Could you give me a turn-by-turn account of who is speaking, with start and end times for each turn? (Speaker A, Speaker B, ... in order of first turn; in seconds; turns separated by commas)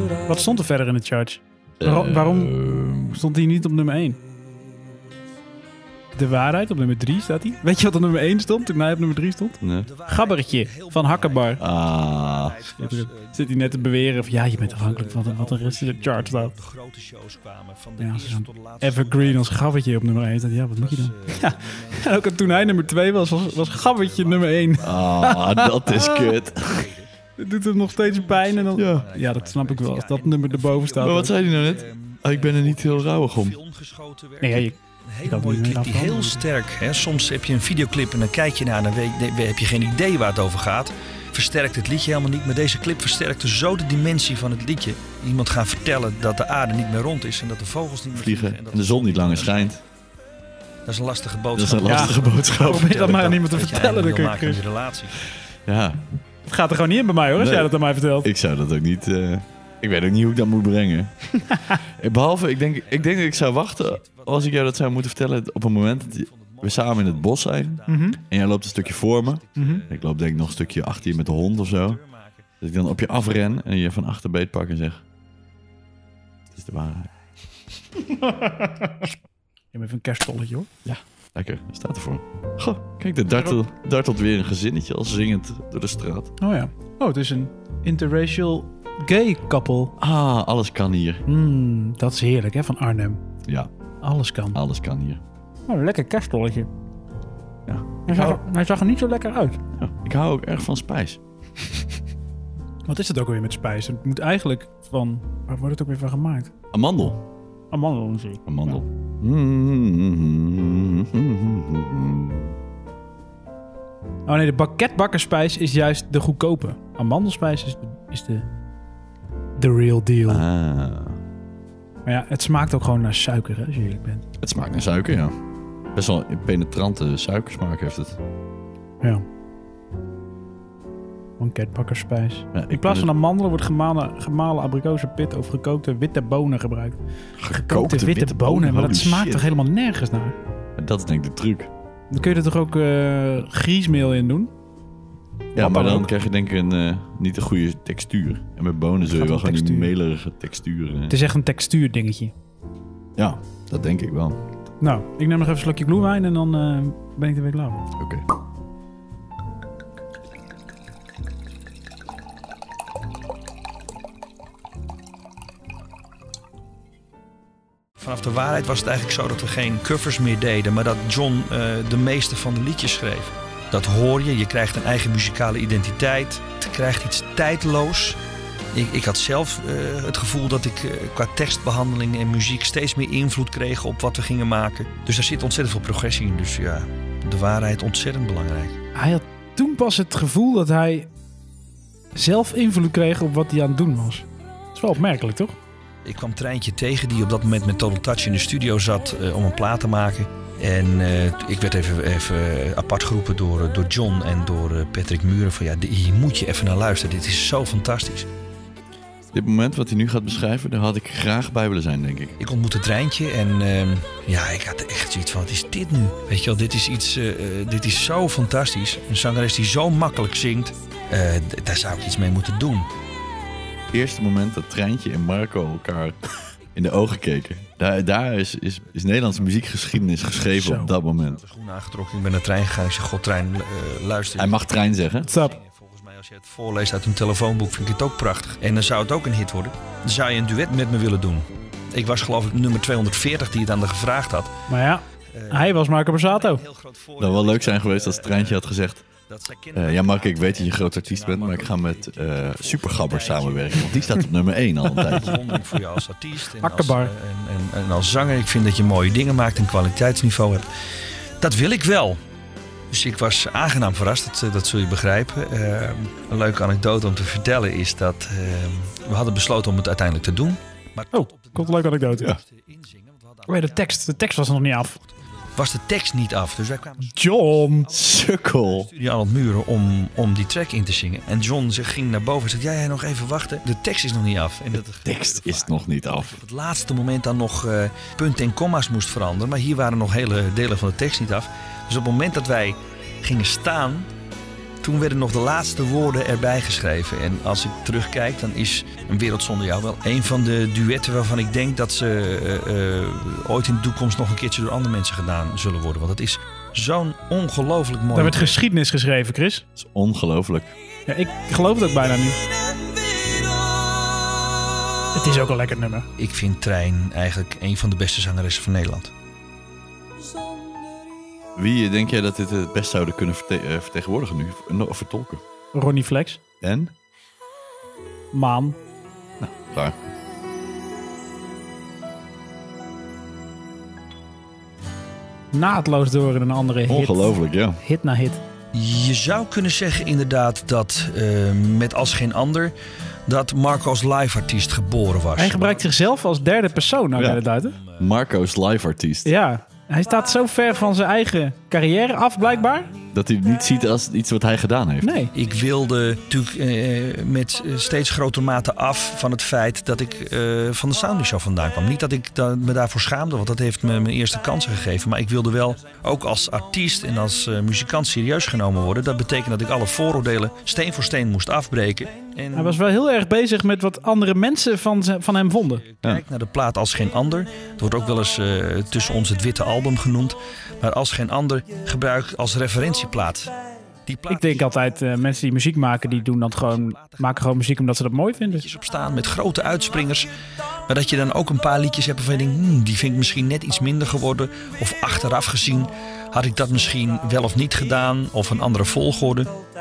Speaker A: 0.3-4.2, Speaker B: 1.8-3.2, Speaker A: 6.1-11.6, Speaker B: 9.6-9.9, Speaker C: 9.8-13.7, Speaker B: 11.6-12.6, Speaker A: 12.8-16.5, Speaker C: 14.3-19.6, Speaker A: 18.0-26.3, Speaker C: 20.8-27.1, Speaker B: 24.8-26.9, Speaker A: 27.4-31.4, Speaker C: 27.8-49.7, Speaker B: 28.8-29.1, Speaker B: 31.0-33.6, Speaker A: 34.4-36.4, Speaker B: 48.1-49.8, Speaker C: 50.9-55.2, Speaker B: 51.5-53.1, Speaker A: 51.8-54.6, Speaker B: 55.6-56.0, Speaker A: 56.5-58.3, Speaker B: 57.4-61.1, Speaker A: 61.5-61.8, Speaker B: 61.8-72.0, Speaker C: 62.9-64.7, Speaker C: 66.1-72.4, Speaker A: 67.9-68.2, Speaker A: 69.5-69.8, Speaker B: 72.6-75.0, Speaker B: 76.5-77.1, Speaker A: 78.1-79.1, Speaker A: 79.7-80.7, Speaker B: 80.8-86.3, Speaker A: 86.4-90.0, Speaker B: 90.0-91.2, Speaker A: 91.2-93.2, Speaker B: 93.4-93.7, Speaker A: 94.0-94.6, Speaker B: 94.5-95.2, Speaker A: 95.7-96.7, Speaker B: 97.7-98.4, Speaker A: 98.0-99.6, Speaker B: 99.8-101.2, Speaker A: 102.8-106.5, Speaker B: 106.7-107.2, Speaker A: 107.7-108.8, Speaker B: 108.5-112.6, Speaker A: 114.2-118.5, Speaker A: 119.6-120.4, Speaker B: 120.3-121.2, Speaker A: 122.0-124.2, Speaker B: 124.4-125.3, Speaker B: 125.9-128.2, Speaker A: 131.4-140.3, Speaker B: 132.5-133.1, Speaker B: 137.4-139.5, Speaker B: 140.8-141.7, Speaker A: 142.1-144.5, Speaker A: 145.5-146.1, Speaker B: 145.5-151.2, Speaker A: 149.0-149.9, Speaker A: 151.1-152.3, Speaker B: 153.2-154.4, Speaker A: 154.8-157.8, Speaker B: 158.0-158.2, Speaker C: 168.0-178.2, Speaker C: 178.7-188.8, Speaker A: 188.9-191.1, Speaker A: 192.1-195.6, Speaker C: 196.0-208.3, Speaker B: 209.3-212.4, Speaker C: 212.4-222.9, Speaker B: 223.9-226.2, Speaker B: 226.7-231.4, Speaker A: 230.6-230.9, Speaker C: 231.2-244.5, Speaker B: 234.3-235.3, Speaker A: 235.3-235.6, Speaker A: 244.7-246.6, Speaker C: 245.3-248.7, Speaker B: 247.2-249.0, Speaker C: 249.2-254.3, Speaker B: 249.7-255.5, Speaker C: 254.8-260.7, Speaker A: 256.6-257.1, Speaker C: 261.4-262.2, Speaker C: 262.9-294.1, Speaker A: 271.1-272.3, Speaker A: 273.5-275.0, Speaker A: 277.0-277.9, Speaker B: 277.9-278.9, Speaker B: 284.7-286.4, Speaker C: 294.8-308.6, Speaker A: 308.1-309.6, Speaker B: 309.8-310.7, Speaker A: 311.1-312.4, Speaker A: 315.1-316.1, Speaker C: 316.2-319.1, Speaker B: 321.6-325.4, Speaker A: 325.7-326.4, Speaker B: 326.6-326.9, Speaker A: 328.3-328.8, Speaker B: 329.4-330.0, Speaker A: 335.5-338.4, Speaker B: 336.9-337.8, Speaker C: 338.7-342.7, Speaker C: 343.3-345.8, Speaker A: 345.4-347.8, Speaker B: 347.1-347.4, Speaker C: 347.8-348.1, Speaker B: 348.0-349.3, Speaker A: 349.2-352.9, Speaker B: 353.1-355.1, Speaker A: 355.0-355.3, Speaker C: 355.3-372.8, Speaker A: 372.5-375.8, Speaker C: 375.9-383.5, Speaker C: 384.1-385.2, Speaker A: 384.3-388.7, Speaker C: 386.3-390.3, Speaker C: 390.9-399.5